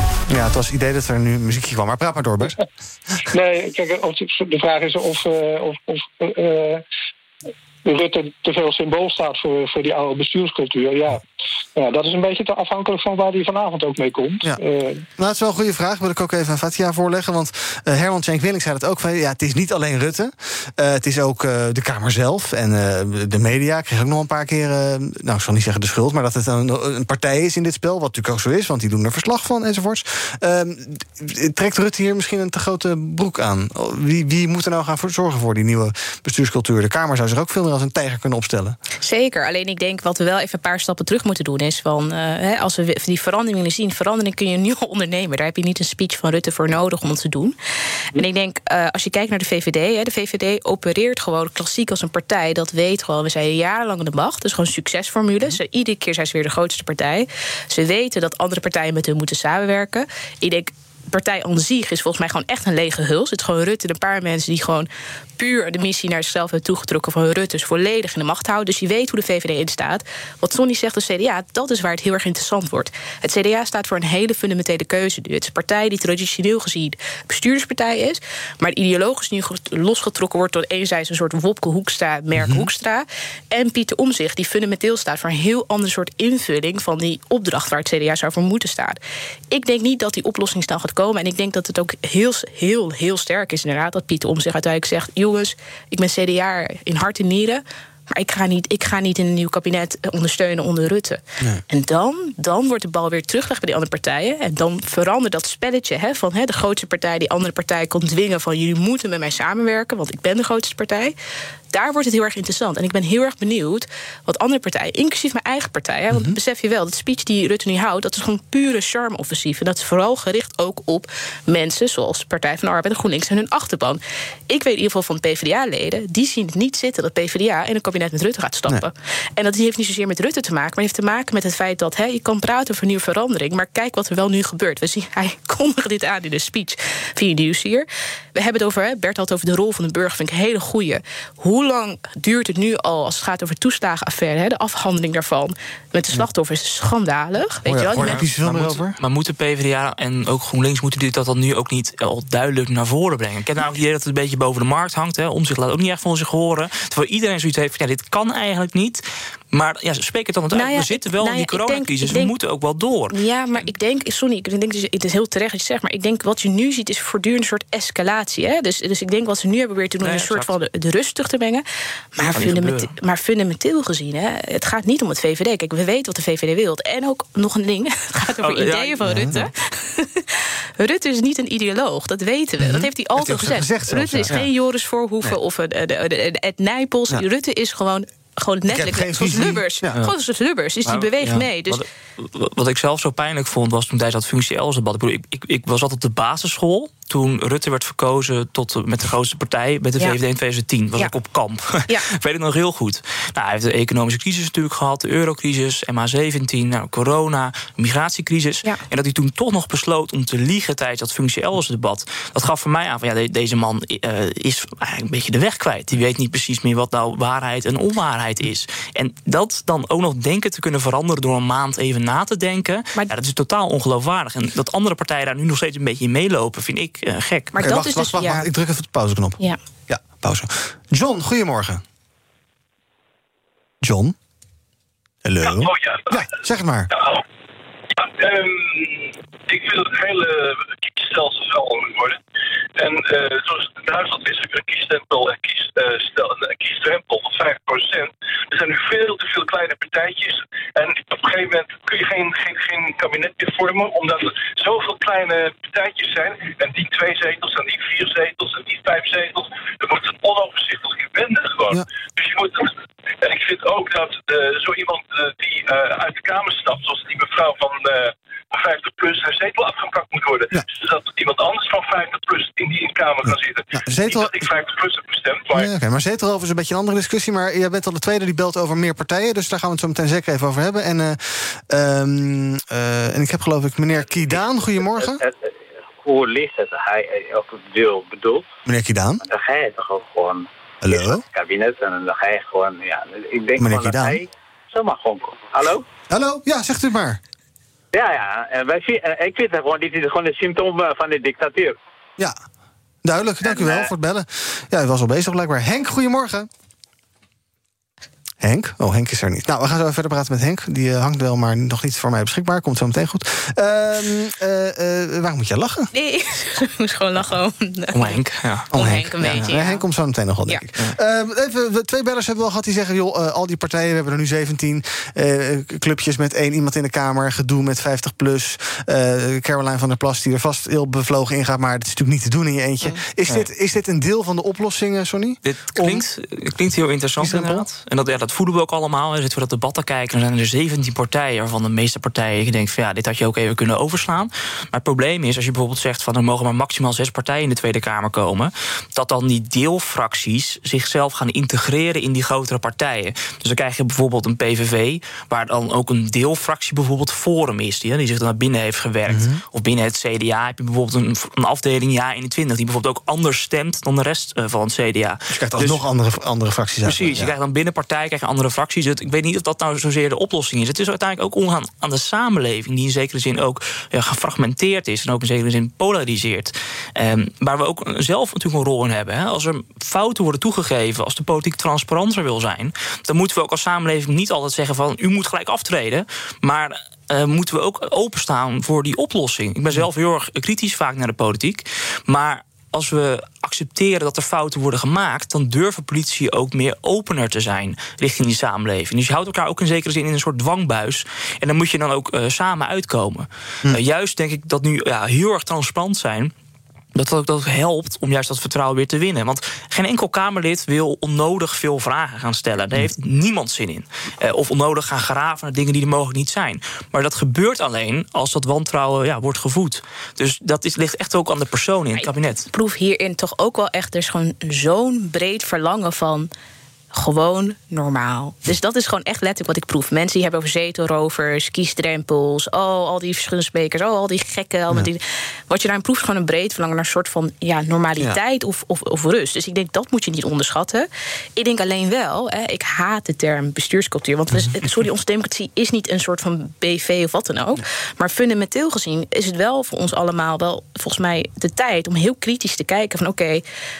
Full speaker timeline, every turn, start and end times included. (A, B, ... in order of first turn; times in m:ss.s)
0:00.3-0:02.6 A
0:03.3-0:06.8 B
0:07.8-0:11.2 B
0:11.8-0:15.0 B
0:15.2-0:38.8 A
0:39.0-0:47.5 C
0:48.1-1:29.0 C
1:22.4-1:22.7 A
1:29.5-1:51.1 C
1:51.7-2:28.2 C
2:27.6-2:29.0 A
2:28.0-2:43.2 D
2:40.5-2:42.3 C
2:43.1-2:51.6 C
2:50.0-2:50.6 D
2:52.1-3:11.8 C
2:52.3-2:52.9 D
2:58.4-2:59.3 D
2:59.0-2:59.4 A
3:02.6-3:04.4 A
3:08.7-3:10.0 A
3:10.8-3:11.1 D
3:11.6-3:47.5 D
3:47.5-3:48.5 C
3:47.6-3:51.8 A
3:53.8-3:54.1 A
3:55.2-3:56.9 A
3:55.4-3:56.3 E
3:58.0-4:02.2 E
4:02.8-4:35.7 E
4:33.8-4:34.4 A
4:35.5-4:45.2 A
4:44.0-4:45.5 F
4:46.0-4:48.4 F
4:48.6-4:49.2 A
4:49.2-4:55.8 F
4:50.8-4:51.2 A
4:53.6-4:54.2 A
4:56.1-4:57.2 A
4:57.9-5:01.8 F
5:03.0-5:06.5 A
5:03.4-5:03.9 F
5:08.4-5:15.9 A
5:15.9-5:18.2 C
5:17.9-5:18.7 D
5:18.7-5:19.8 C
5:18.7-5:36.0 A
5:35.4-6:05.8 D
5:37.2-5:37.6 A
5:59.1-5:59.4 A
6:05.3-6:07.3 A
6:06.8-6:46.3 D
6:46.9-7:02.5 D
7:01.9-7:06.3 C
7:06.9-7:33.4 C
7:24.3-7:24.6 A